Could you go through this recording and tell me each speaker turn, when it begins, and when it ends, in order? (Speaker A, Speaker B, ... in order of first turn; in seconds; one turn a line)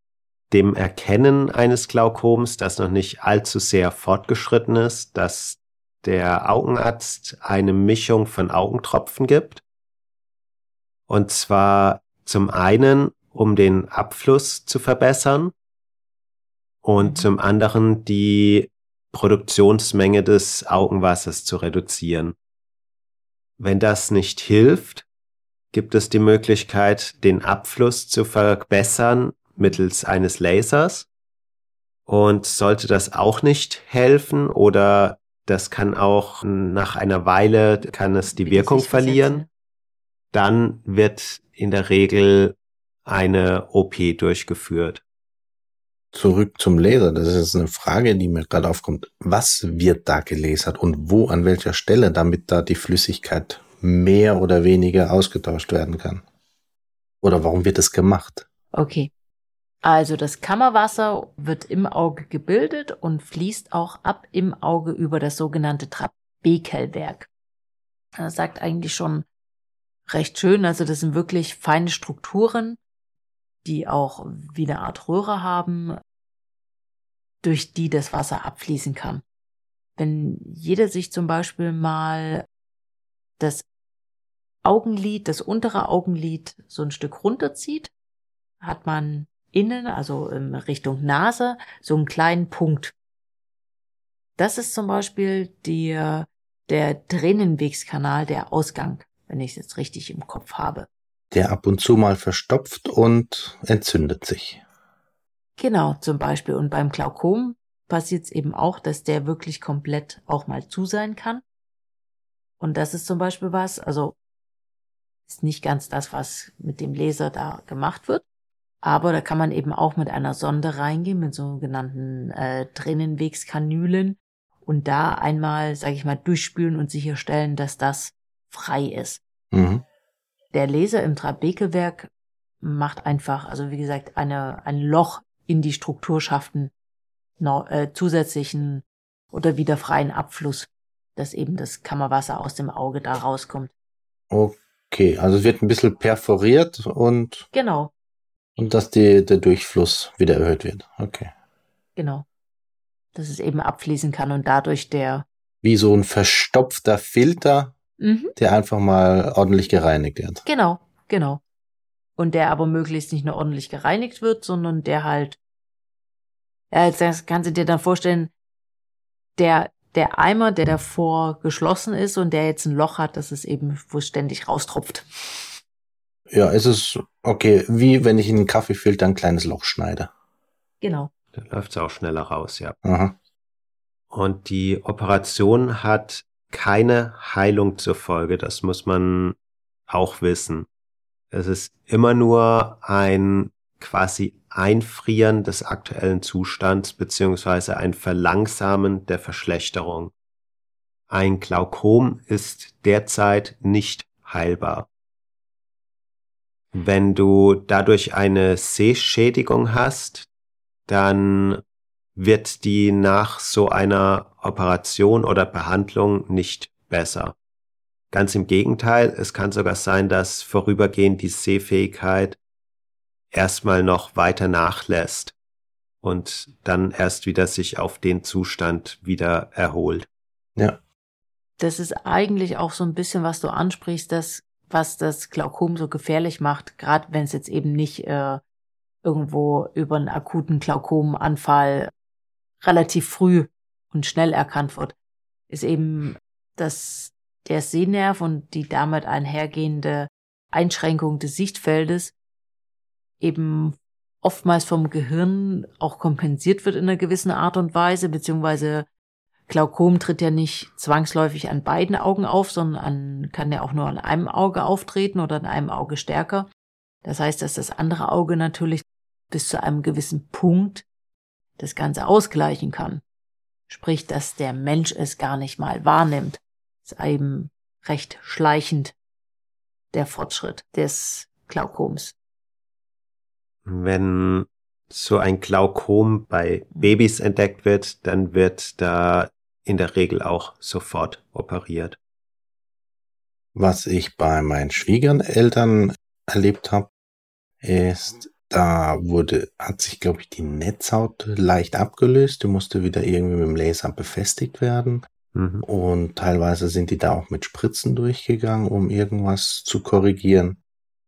Speaker A: 0.5-9.6
Speaker A: 11.1-15.5
Speaker A: 16.8-22.3
Speaker B: 17.0-17.3
Speaker A: 23.6-25.0
Speaker A: 25.7-31.1
Speaker A: 32.1-39.4
Speaker B: 38.3-39.5
Speaker A: 40.3-45.0
Speaker C: 46.1-56.2
Speaker C: 57.2-58.5
Speaker B: 58.7-59.1
Speaker B: 59.8-67.3
Speaker B: 68.2-69.3
Speaker B: 70.1-72.8
Speaker B: 73.6-76.0
Speaker B: 77.4-79.2
Speaker B: 80.0-82.4
Speaker B: 83.4-83.6
Speaker B: 84.6-87.9
Speaker B: 88.6-92.9
Speaker B: 94.4-100.9
Speaker C: 101.3-104.6
Speaker B: 105.6-111.4
Speaker B: 112.6-114.2
Speaker B: 115.3-118.2
Speaker B: 118.8-129.2
Speaker C: 129.5-129.8
Speaker B: 130.5-132.1
Speaker B: 132.6-136.7
Speaker B: 137.4-143.7
Speaker C: 144.3-147.5
Speaker B: 147.5-147.9
Speaker C: 148.6-151.3
Speaker B: 152.0-152.2
Speaker B: 153.1-155.2
Speaker C: 155.6-157.7
Speaker B: 158.0-158.3
Speaker C: 158.4-160.4
Speaker B: 160.4-161.4
Speaker B: 162.2-165.4
Speaker B: 166.7-168.3
Speaker B: 169.4-175.1
Speaker C: 176.3-180.1
Speaker B: 180.8-181.1
Speaker A: 181.3-182.8
Speaker C: 182.8-183.1
Speaker A: 184.1-189.3
Speaker A: 189.9-190.7
Speaker A: 191.3-200.1
Speaker A: 201.1-204.9
Speaker A: 206.7-210.3
Speaker A: 210.9-211.6
Speaker A: 212.2-217.3
Speaker A: 218.1-222.4
Speaker A: 223.3-225.3
Speaker A: 226.0-230.1
Speaker B: 231.6-238.4
Speaker B: 239.0-241.9
Speaker B: 242.6-244.9
Speaker B: 245.5-252.1
Speaker B: 253.2-258.9
Speaker B: 259.5-266.5
Speaker B: 267.0-270.8
Speaker B: 271.6-273.0
Speaker B: 273.7-278.9
Speaker B: 279.9-282.1
Speaker A: 283.6-292.0
Speaker C: 293.5-296.9
Speaker C: 297.6-305.1
Speaker A: 305.3-305.6
Speaker C: 305.6-310.6